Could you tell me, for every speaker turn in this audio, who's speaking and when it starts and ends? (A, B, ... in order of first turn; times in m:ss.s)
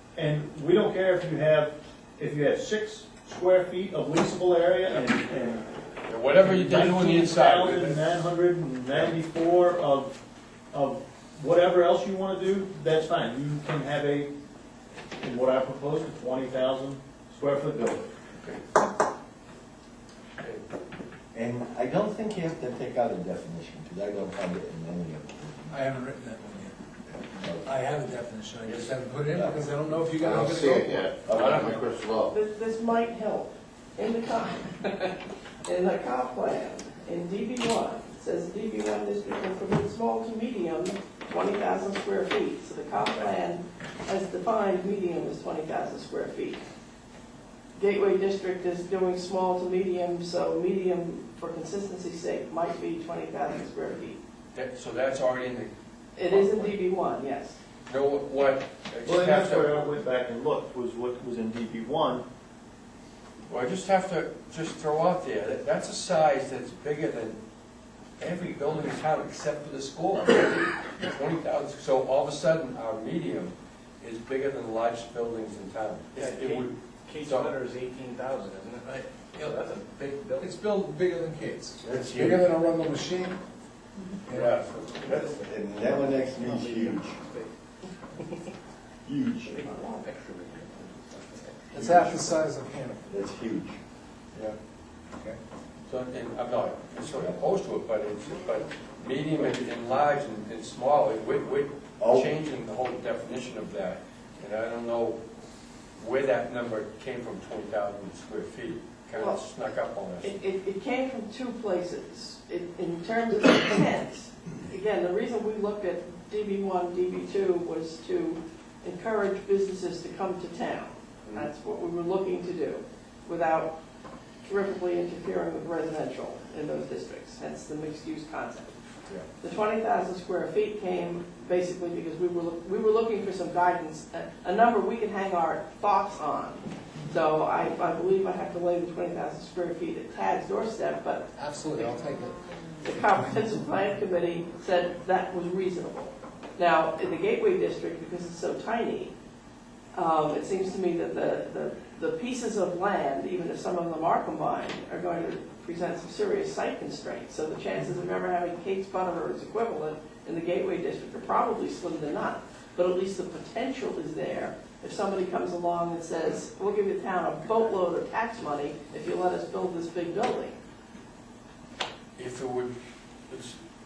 0:00.2-0:05.6 A
0:06.1-0:08.0 B
0:06.4-0:10.2 A
0:10.7-0:14.3 A
0:15.2-0:18.1 A
0:21.3-0:25.8 C
0:25.7-0:26.7 D
0:27.2-0:27.7 C
0:27.6-0:31.1 D
0:30.2-0:32.3 E
0:31.2-0:31.7 C
0:31.3-0:31.8 B
0:32.3-0:46.6 F
0:47.8-0:54.2 F
0:54.5-0:55.7 B
0:56.2-0:57.6 F
0:56.3-0:56.8 B
0:57.9-0:59.7 B
0:59.0-1:02.2 A
1:03.5-1:07.4 B
1:08.2-1:17.5 B
1:16.2-1:20.5 G
1:20.4-1:23.4 D
1:21.8-1:22.4 B
1:24.3-1:24.6 D
1:24.3-1:25.4 B
1:25.0-1:25.4 G
1:25.2-1:27.1 C
1:26.4-1:27.5 G
1:28.2-1:28.4 G
1:29.0-1:29.6 C
1:29.4-1:31.8 G
1:31.7-1:33.2 D
1:31.8-1:32.1 B
1:33.1-1:33.8 C
1:35.9-1:45.2 B
1:42.0-1:42.3 C
1:46.0-1:50.3 B
1:49.1-1:49.4 F
1:50.2-2:03.7 F
2:04.4-2:08.8 F
2:09.4-2:22.0 F
2:21.3-2:22.4 D
2:22.8-2:29.1 F
2:23.0-2:23.6 D
2:29.9-2:50.6 F
2:52.2-2:52.7 B
2:53.3-2:53.6 B